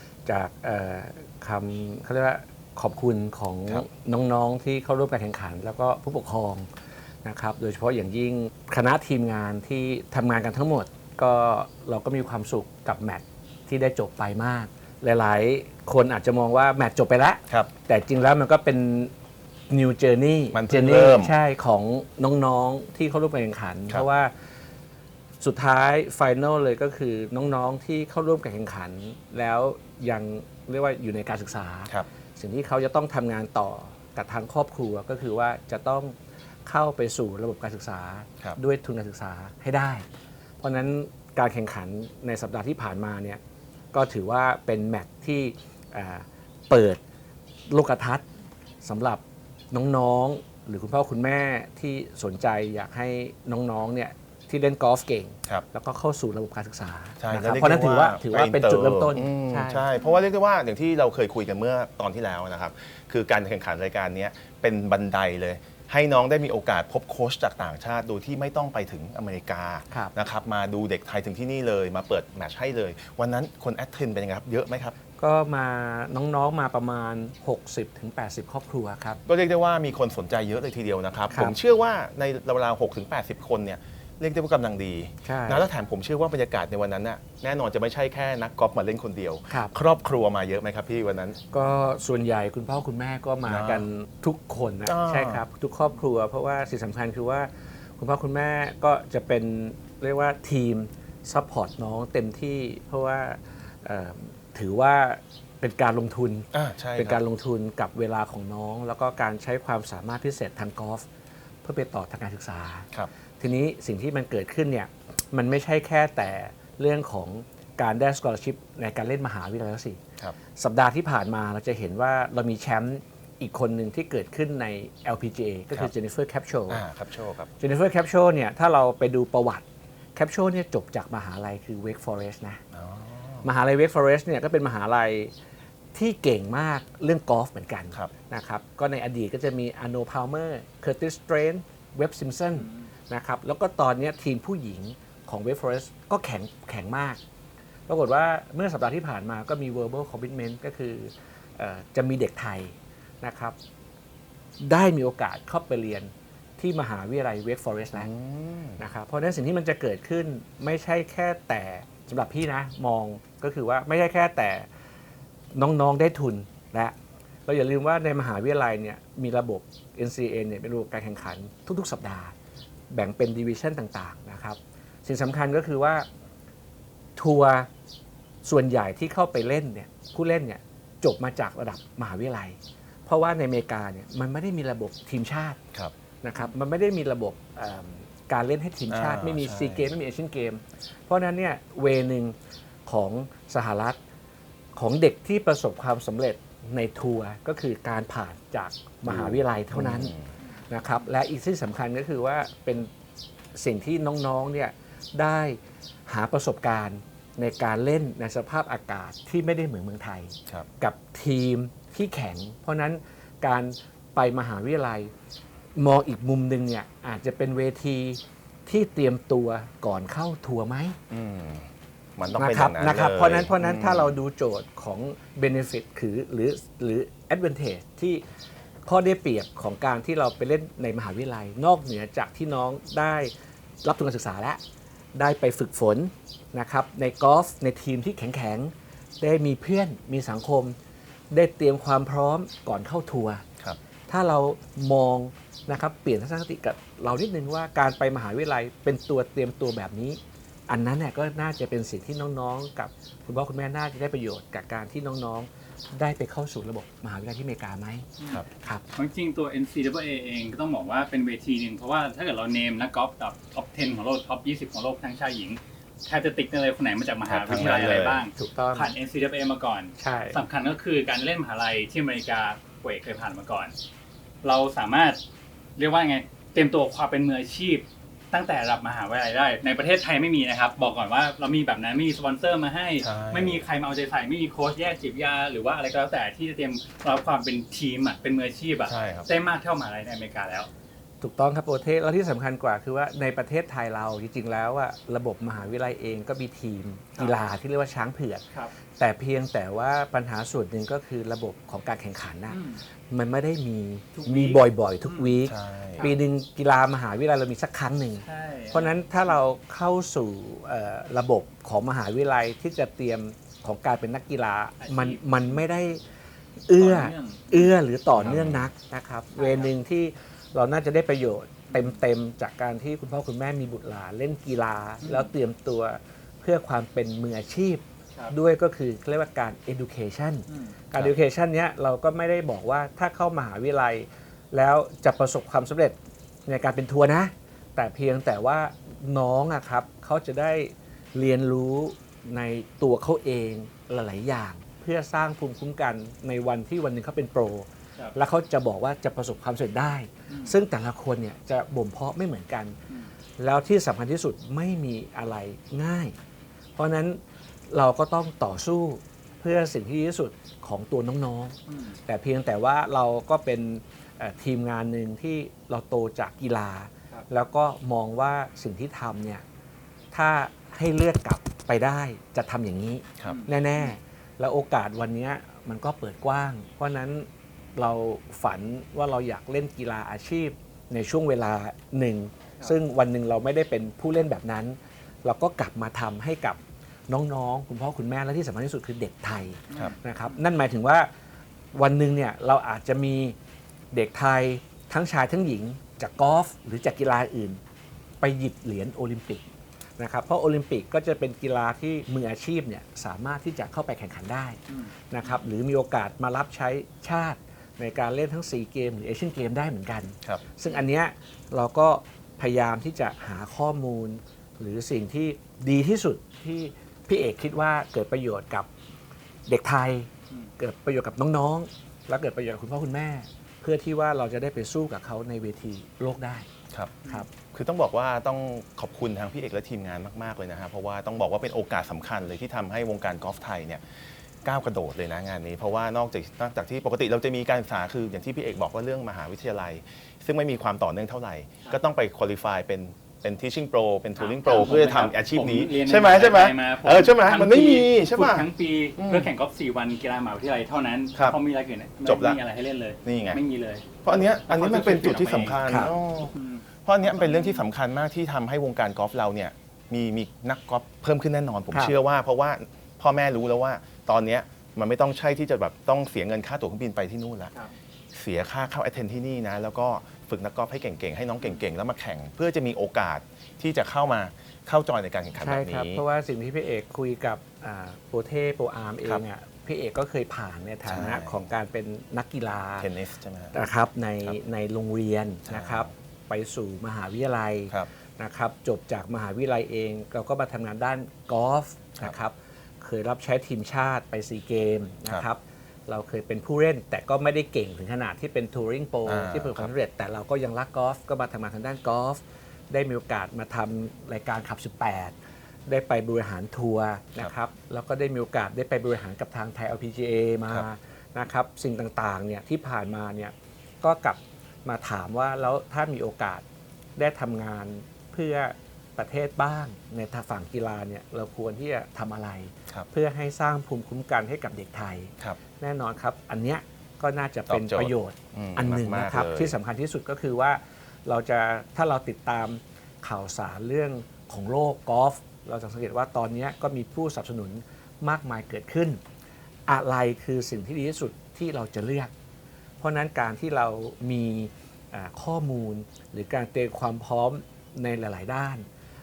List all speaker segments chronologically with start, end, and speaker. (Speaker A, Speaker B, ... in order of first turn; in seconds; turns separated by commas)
Speaker A: 0.2-6.7, Speaker A: 7.2-19.1, Speaker A: 19.7-24.3, Speaker B: 20.5-21.3, Speaker A: 25.4-36.1, Speaker A: 36.6-40.0, Speaker A: 40.6-43.4, Speaker A: 43.9-47.0, Speaker A: 47.7-48.2, Speaker A: 48.8-59.9, Speaker B: 57.2-74.9, Speaker A: 75.2-79.2, Speaker B: 79.2-91.4, Speaker A: 81.3-81.6, Speaker A: 85.2-85.7, Speaker A: 89.5-89.7, Speaker A: 91.5-111.0, Speaker B: 93.5-93.9, Speaker B: 94.8-95.4, Speaker B: 106.5-107.2, Speaker A: 111.6-120.0, Speaker A: 120.5-126.8, Speaker B: 126.7-127.5, Speaker A: 127.6-129.6, Speaker A: 130.2-132.6, Speaker B: 132.7-133.5, Speaker A: 133.4-135.3, Speaker A: 135.9-147.2, Speaker C: 142.6-142.8, Speaker A: 147.9-153.6, Speaker A: 154.6-158.1, Speaker B: 158.0-158.8, Speaker A: 158.8-164.7, Speaker A: 165.5-166.9, Speaker A: 167.4-172.3, Speaker A: 172.9-176.1, Speaker A: 177.2-177.7, Speaker A: 178.4-185.6, Speaker A: 186.2-192.3, Speaker B: 188.9-189.9, Speaker A: 192.8-194.0, Speaker A: 194.7-200.1, Speaker B: 199.1-200.3, Speaker A: 200.7-202.9, Speaker A: 203.5-215.1, Speaker A: 215.8-221.0, Speaker B: 221.1-224.2, Speaker A: 222.3-228.2, Speaker A: 228.8-233.3, Speaker A: 233.8-234.6, Speaker A: 235.1-240.8, Speaker A: 241.3-243.4, Speaker A: 244.1-258.8, Speaker C: 258.9-273.7, Speaker B: 267.3-268.2, Speaker A: 268.4-268.9, Speaker A: 270.0-270.5, Speaker C: 274.4-275.2, Speaker C: 275.8-290.7, Speaker B: 283.0-283.6, Speaker B: 288.8-289.3, Speaker A: 291.2-298.4, Speaker A: 299.0-302.6, Speaker C: 302.5-302.8, Speaker A: 303.1-316.0, Speaker C: 304.1-305.4, Speaker B: 305.4-306.1, Speaker C: 308.2-309.0, Speaker C: 314.8-315.6, Speaker A: 316.7-335.9, Speaker C: 316.8-317.7, Speaker B: 318.2-318.7, Speaker C: 319.4-319.7, Speaker C: 321.7-322.0, Speaker C: 325.0-325.3, Speaker C: 330.5-330.8, Speaker A: 336.5-352.8, Speaker C: 350.3-350.6, Speaker A: 353.4-356.1, Speaker A: 356.8-369.4, Speaker C: 361.7-362.0, Speaker A: 370.1-391.1, Speaker C: 373.2-373.9, Speaker C: 389.7-390.4, Speaker A: 391.7-393.4, Speaker A: 393.9-397.6, Speaker A: 398.2-399.4, Speaker A: 400.0-404.6, Speaker C: 404.7-405.4, Speaker A: 405.1-418.7, Speaker A: 419.5-426.5, Speaker B: 426.7-427.0, Speaker B: 427.5-449.3, Speaker C: 444.1-457.6, Speaker B: 452.0-452.4, Speaker B: 453.0-453.4, Speaker B: 454.0-456.3, Speaker A: 455.6-455.9, Speaker B: 456.9-467.5, Speaker A: 461.7-462.0, Speaker B: 468.1-476.0, Speaker A: 475.4-482.9, Speaker B: 480.9-481.4, Speaker B: 482.8-483.5, Speaker A: 483.5-505.1, Speaker B: 485.5-485.9, Speaker B: 499.1-499.7, Speaker A: 505.6-516.4, Speaker A: 517.0-539.0, Speaker B: 527.5-529.5, Speaker A: 539.7-542.1, Speaker A: 542.8-548.6